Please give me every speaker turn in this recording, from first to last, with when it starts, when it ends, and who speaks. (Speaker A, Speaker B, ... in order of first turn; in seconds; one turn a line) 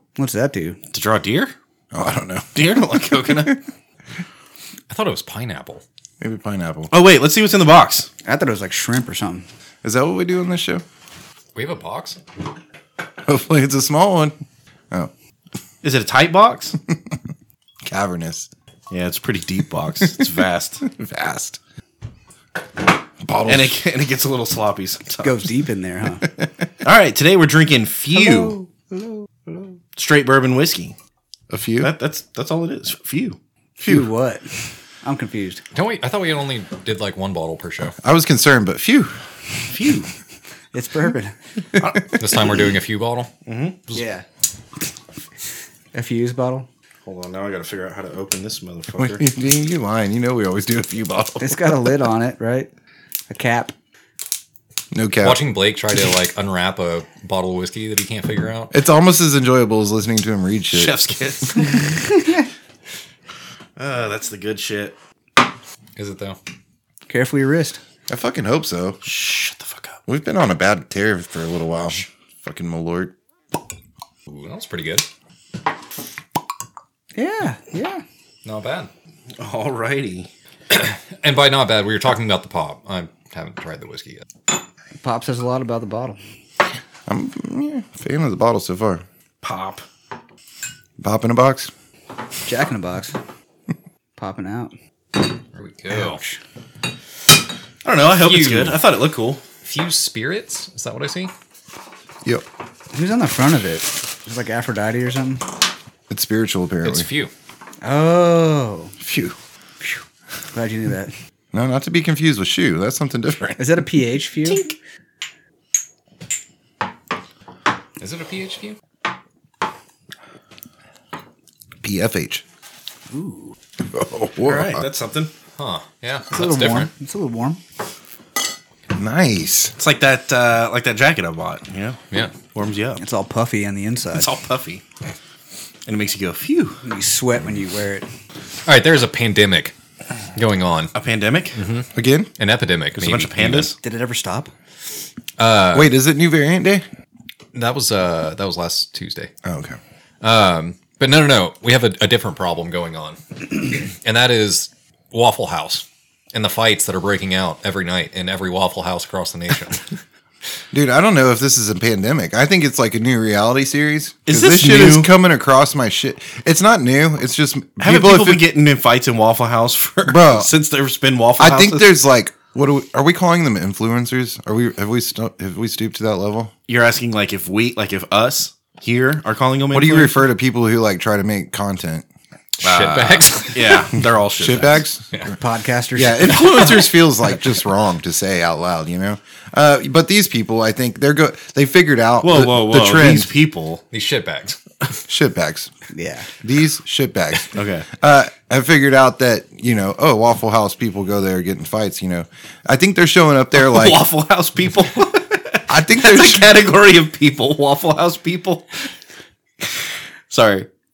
Speaker A: 0.2-0.8
Speaker B: 0.9-1.5
Speaker C: 1.9-2.5
Speaker B: 2.5-3.6
Speaker C: 3.3-3.5
Speaker D: 4.9-5.8
Speaker C: 6.2-6.9
Speaker B: 6.9-8.1
Speaker A: 8.2-9.4
Speaker C: 9.8-10.8
Speaker D: 11.5-12.2
Speaker C: 13.2-14.3
Speaker B: 15.8-16.8
Speaker C: 17.8-18.5
Speaker B: 18.9-20.8
Speaker C: 20.8-21.6
Speaker C: 23.2-23.8
Speaker B: 23.5-25.4
Speaker A: 25.2-26.2
Speaker C: 26.2-26.6
Speaker B: 26.8-28.6
Speaker A: 28.1-29.7
Speaker B: 29.9-30.9
Speaker C: 31.5-31.9
Speaker B: 31.8-33.4
Speaker A: 33.8-35.6
Speaker D: 35.7-37.9
Speaker C: 38.0-39.1
Speaker B: 39.7-40.1
Speaker A: 40.7-41.3
Speaker C: 41.8-42.4
Speaker B: 41.8-42.4
Speaker D: 42.1-43.3
Speaker B: 43.5-43.8
Speaker A: 43.9-44.2
Speaker A: 45.9-46.7
Speaker B: 47.0-49.2
Speaker C: 49.0-51.8
Speaker A: 51.4-52.7
Speaker A: 53.3-53.7
Speaker C: 54.9-55.4
Speaker D: 55.2-58.7
Speaker C: 58.7-61.0
Speaker B: 60.7-62.0
Speaker B: 63.8-65.0
Speaker D: 66.0-66.4
Speaker A: 67.1-67.8
Speaker C: 68.1-69.0
Speaker B: 69.0-70.0
Speaker C: 70.1-73.1
Speaker D: 74.3-75.1
Speaker A: 77.2-78.0
Speaker D: 78.4-78.9
Speaker B: 79.4-80.3
Speaker D: 80.7-84.2
Speaker A: 85.0-86.2
Speaker C: 87.1-89.0
Speaker B: 89.4-89.8
Speaker C: 91.0-91.7
Speaker A: 92.4-93.2
Speaker A: 94.2-94.7
Speaker D: 95.5-96.2
Speaker A: 95.9-96.4
Speaker B: 97.8-99.4
Speaker D: 98.2-98.8
Speaker D: 99.6-101.3
Speaker A: 102.9-105.4
Speaker C: 106.1-107.1
Speaker D: 106.8-107.3
Speaker A: 107.8-108.9
Speaker C: 109.0-109.4
Speaker A: 110.5-111.1
Speaker C: 111.5-113.6
Speaker A: 113.6-114.7
Speaker D: 118.0-118.8
Speaker C: 121.8-122.4
Speaker A: 123.1-123.5
Speaker C: 123.8-124.8
Speaker B: 124.4-125.3
Speaker D: 125.6-126.9
Speaker A: 126.3-127.6
Speaker C: 128.9-129.7
Speaker B: 129.8-133.0
Speaker A: 133.0-134.3
Speaker B: 134.1-134.8
Speaker B: 135.8-136.8
Speaker A: 136.8-138.1
Speaker D: 138.7-139.7
Speaker D: 140.3-140.9
Speaker B: 140.9-141.6
Speaker D: 141.5-143.7
Speaker C: 141.9-142.3
Speaker B: 142.9-143.7
Speaker A: 143.8-144.5
Speaker D: 145.4-145.9
Speaker C: 145.7-146.8
Speaker D: 147.5-149.3
Speaker C: 149.4-149.8
Speaker D: 150.2-160.0
Speaker C: 160.7-168.4
Speaker B: 164.3-165.1
Speaker B: 167.8-171.9
Speaker C: 170.0-170.5
Speaker C: 171.4-176.5
Speaker B: 176.7-180.2
Speaker C: 179.7-182.1
Speaker D: 182.6-183.9
Speaker B: 182.6-184.8
Speaker C: 184.4-185.1
Speaker A: 185.3-186.7
Speaker C: 185.9-193.3
Speaker B: 192.2-193.8
Speaker D: 193.9-194.6
Speaker C: 195.1-195.7
Speaker A: 195.9-196.3
Speaker C: 196.4-204.0
Speaker B: 197.5-197.9
Speaker B: 203.5-208.7
Speaker C: 205.7-206.6
Speaker B: 210.3-210.7